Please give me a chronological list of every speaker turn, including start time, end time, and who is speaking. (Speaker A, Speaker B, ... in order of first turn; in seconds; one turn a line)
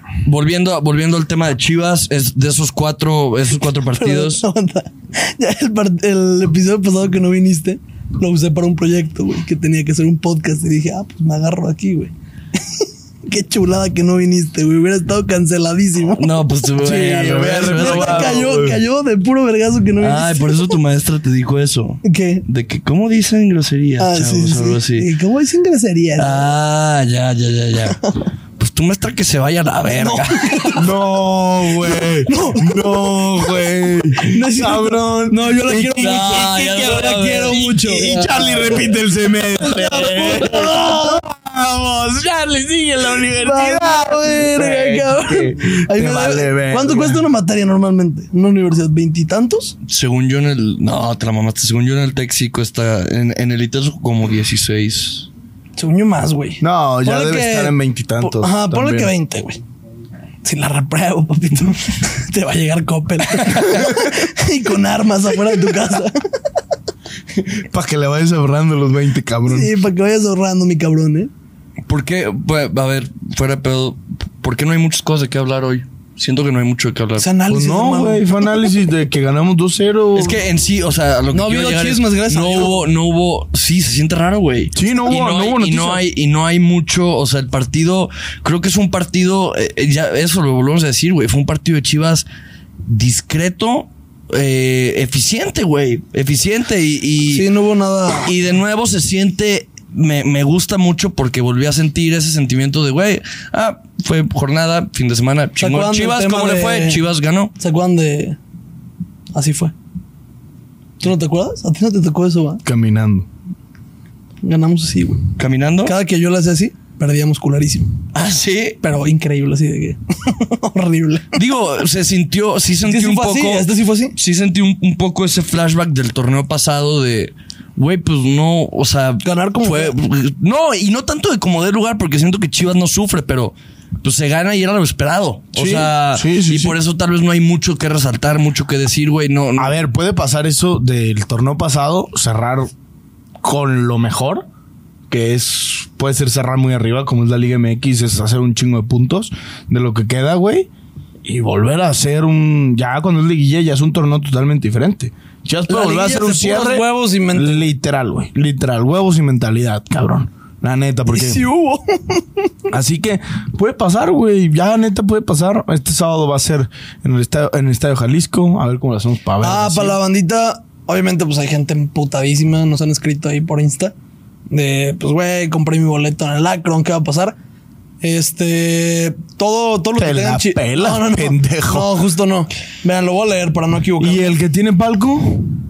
Speaker A: 0.2-4.4
Speaker B: 3.9-12.1
Speaker B: 12.7-16.4
Speaker A: 16.1-18.4
Speaker C: 16.8-18.8
Speaker B: 17.7-20.8
Speaker A: 20.0-25.1
Speaker B: 22.0-22.4
Speaker B: 24.0-26.6
Speaker A: 26.2-28.0
Speaker A: 28.6-30.7
Speaker B: 29.9-31.0
Speaker C: 30.7-47.2
Speaker B: 32.2-33.5
Speaker B: 34.2-38.5
Speaker A: 36.0-38.8
Speaker B: 39.6-41.2
Speaker B: 43.4-49.7
Speaker A: 49.9-55.3
Speaker B: 55.8-59.6
Speaker C: 56.6-59.1
Speaker B: 60.4-66.2
Speaker C: 67.4-69.7
Speaker B: 69.5-71.3
Speaker A: 71.9-77.3
Speaker B: 77.2-78.7
Speaker C: 77.5-80.4
Speaker A: 80.1-92.3
Speaker B: 81.3-82.9
Speaker C: 84.7-86.0
Speaker A: 92.9-97.5
Speaker B: 97.3-98.3
Speaker A: 98.2-107.5
Speaker B: 105.6-107.0
Speaker B: 107.6-108.4
Speaker B: 109.3-109.7
Speaker B: 111.0-112.6
Speaker C: 112.6-113.3
Speaker B: 114.4-115.3
Speaker A: 115.4-116.0
Speaker B: 115.8-118.0
Speaker A: 118.1-118.8
Speaker B: 118.8-121.4
Speaker A: 121.3-139.7
Speaker B: 122.9-124.1
Speaker B: 129.2-129.9
Speaker C: 135.6-136.7
Speaker C: 139.6-142.7
Speaker C: 143.4-144.4
Speaker C: 145.1-150.7
Speaker C: 151.2-161.4
Speaker B: 155.7-157.7
Speaker B: 161.1-162.4
Speaker C: 162.7-170.0
Speaker B: 169.4-173.9
Speaker B: 174.5-177.4
Speaker B: 178.0-184.4
Speaker C: 180.0-182.0
Speaker C: 184.0-185.5